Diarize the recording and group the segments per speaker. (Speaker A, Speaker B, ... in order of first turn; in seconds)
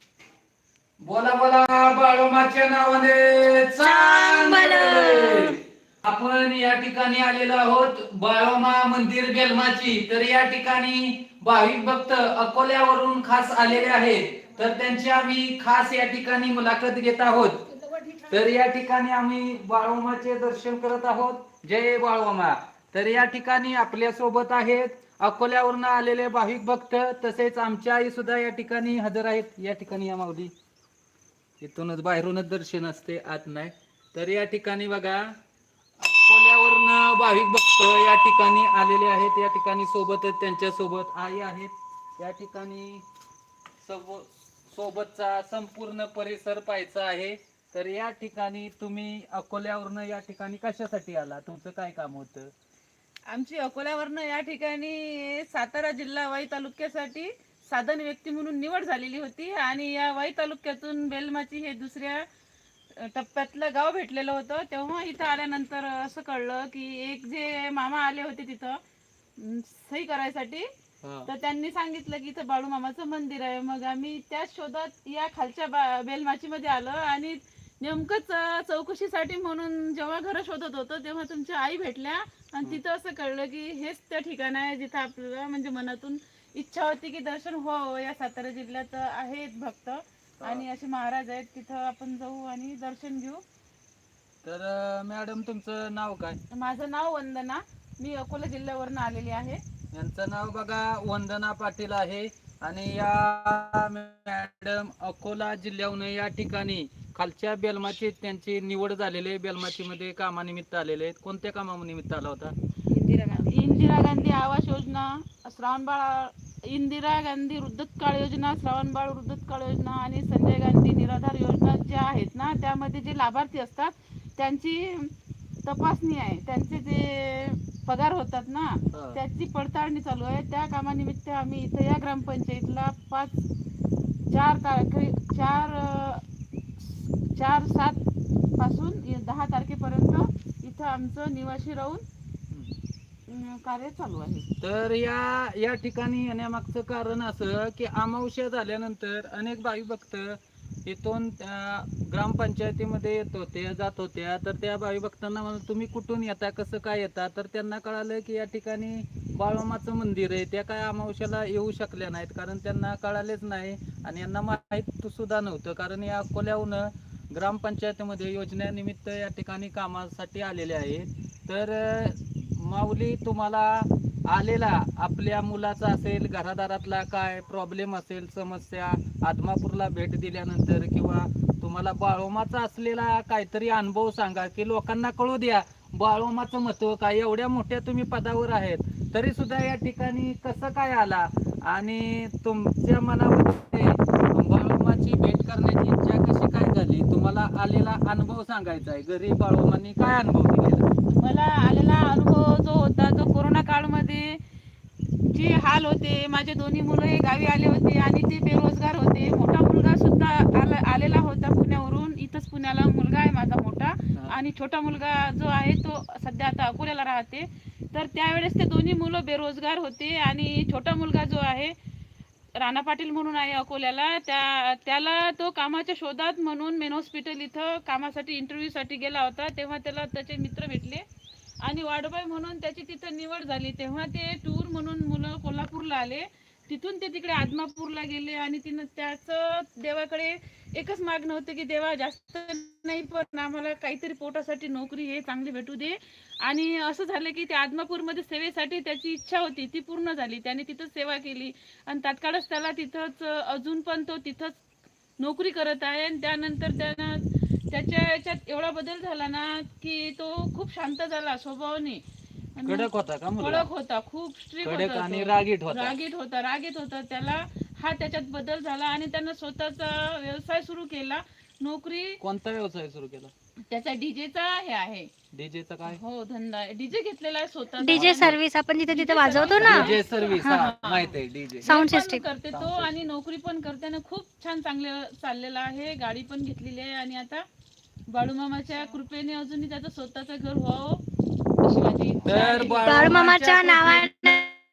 Speaker A: 1.0-17.6, 18.3-30.5, 31.6-35.2, 36.0-43.0, 43.8-52.5, 71.0-71.3, 90.4-90.7, 94.4-96.4, 99.9-112.5, 128.9-129.2, 144.6-200.9, 262.6-263.7, 264.6-266.0, 272.2-273.3, 275.3-276.0, 277.9-278.4, 279.5-281.8, 282.5-283.1, 292.2-294.1
Speaker B: 3.8-5.6, 277.8-280.6, 281.6-282.2, 292.8-294.5
Speaker C: 53.3-62.2, 63.0-68.8, 69.4-70.7, 71.3-93.4, 96.5-99.6, 112.9-125.1, 125.7-133.4, 134.3-136.2, 136.8-138.0, 138.6-142.0, 143.3-144.5, 201.1-204.4, 205.3-221.7, 222.6-231.0, 231.6-254.6, 255.2-262.0, 262.6-262.9, 263.4-272.2, 273.7-275.1, 275.8-278.3, 278.9-287.4, 288.1-291.0, 291.6-293.2